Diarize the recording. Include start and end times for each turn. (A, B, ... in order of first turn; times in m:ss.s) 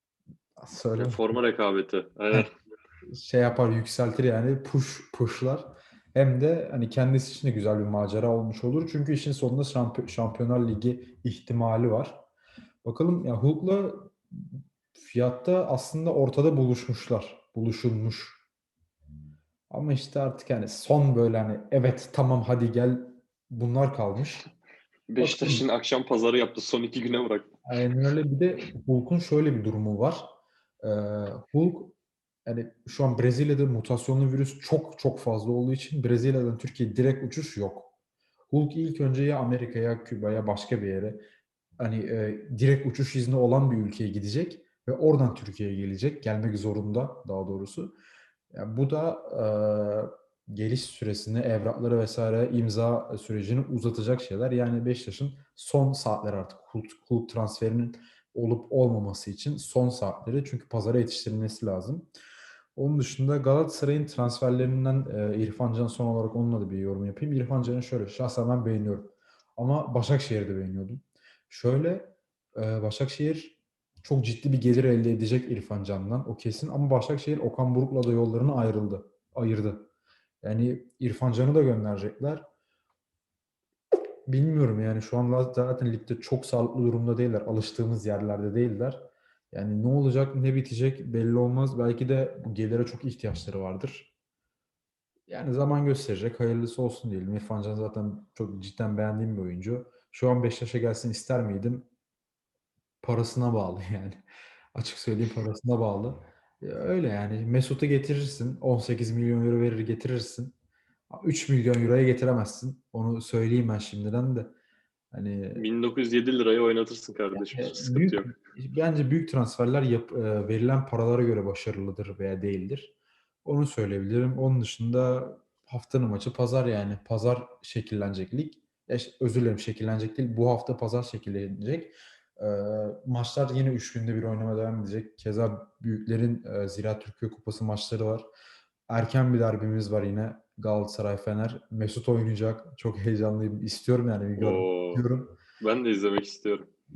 0:00.6-0:01.3 A
0:00.9-0:02.5 B
0:03.1-0:12.2 A
0:12.8-0:18.4 A
0:19.7-0:24.4 A
0:25.1-0:27.5 B
0:25.2-0:25.6 A
0:27.6-0:31.9 A
0:32.4-0:37.9 A
0:38.5-0:41.2 A
0:41.8-0:47.9 A
0:48.5-1:02.1 A
1:02.8-1:19.9 A
1:20.4-1:22.4 A
1:24.3-1:34.1 A
1:35.3-1:41.9 A
1:43.0-1:44.2 A
1:44.7-1:50.5 A
1:51.1-1:54.5 A
1:55.1-1:55.6 A
1:55.6-1:58.3 B
1:57.3-2:18.3 A
2:18.9-2:25.3 A
2:24.4-2:25.1 B
2:25.6-2:26.7 B